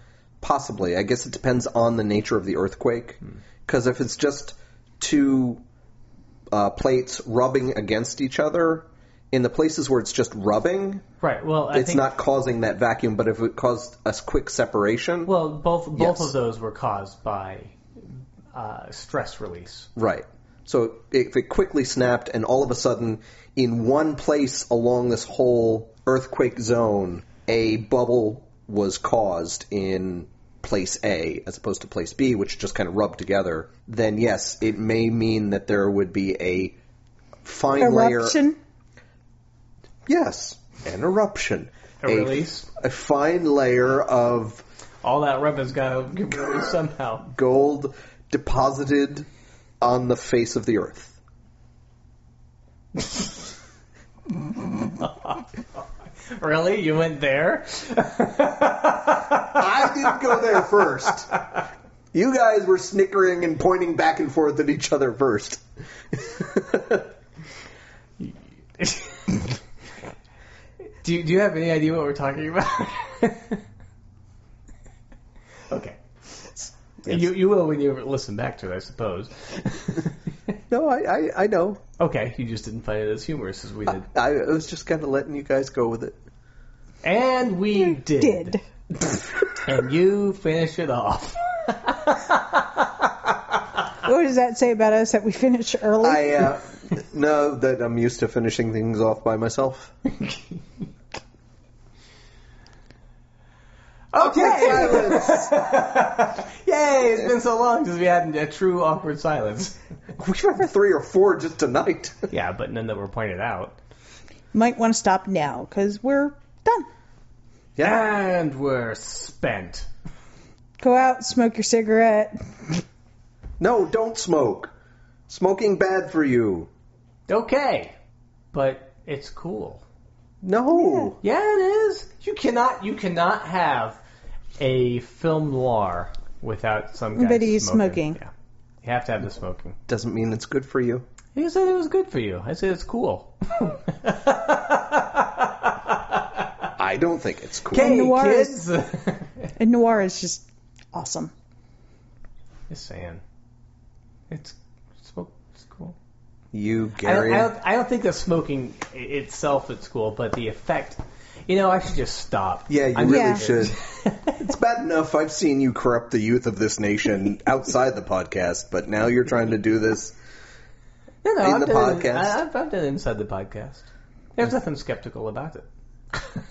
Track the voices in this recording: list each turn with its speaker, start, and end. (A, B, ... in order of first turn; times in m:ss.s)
0:00.4-0:05.6 A
0:06.5-0:11.0 A
0:11.2-0:12.1 B
0:11.7-0:15.3 A
0:15.2-0:17.8 B
0:15.9-0:16.3 A
0:18.5-0:19.9 B
0:20.0-0:36.8 A
0:37.4-0:38.4 A
0:37.8-0:38.6 C
0:40.1-0:44.6 A
0:42.0-0:42.7 B
0:45.0-0:47.3 B
0:47.3-0:49.3 A
0:49.8-0:51.2 A
0:55.0-0:55.4 B
0:56.3-0:59.6 B
0:59.4-1:01.3 A
1:02.1-1:07.1 A
1:08.2-1:09.4 B
1:11.0-1:13.6 B
1:15.7-1:16.0 B
1:17.0-1:20.1 B
1:20.7-1:21.8 A
1:22.0-1:24.1 B
1:23.9-1:26.2 A
1:27.0-1:28.6 B
1:28.2-1:28.6 C
1:29.6-1:33.1 B
1:34.0-1:36.5 C
1:36.0-1:39.9 A
1:44.1-1:49.8 B
1:44.2-1:45.6 A
1:50.2-1:52.3 A
1:52.3-1:53.8 B
1:54.5-1:56.9 C
1:57.8-1:58.0 A
1:57.8-1:59.9 B
2:00.8-2:02.7 C
2:03.6-2:04.7 A
2:05.3-2:06.7 A
2:07.3-2:07.9 B
2:08.5-2:09.8 B
2:10.4-2:11.2 A
2:10.8-2:11.1 C
2:11.2-2:14.0 B
2:14.6-2:18.3 B
2:17.1-2:18.2 C
2:18.8-2:19.8 B
2:19.9-2:21.0 A
2:21.3-2:26.6 B
2:26.8-2:27.9 A
2:27.7-2:29.5 B
2:27.7-2:28.6 C
2:29.6-2:31.3 C
2:32.7-2:33.2 B
2:34.3-2:36.0 B
2:36.5-2:37.5 A
2:37.0-2:44.4 B
2:42.7-2:50.1 A
2:43.0-2:43.4 C
2:51.2-2:55.6 B
2:51.4-2:52.4 A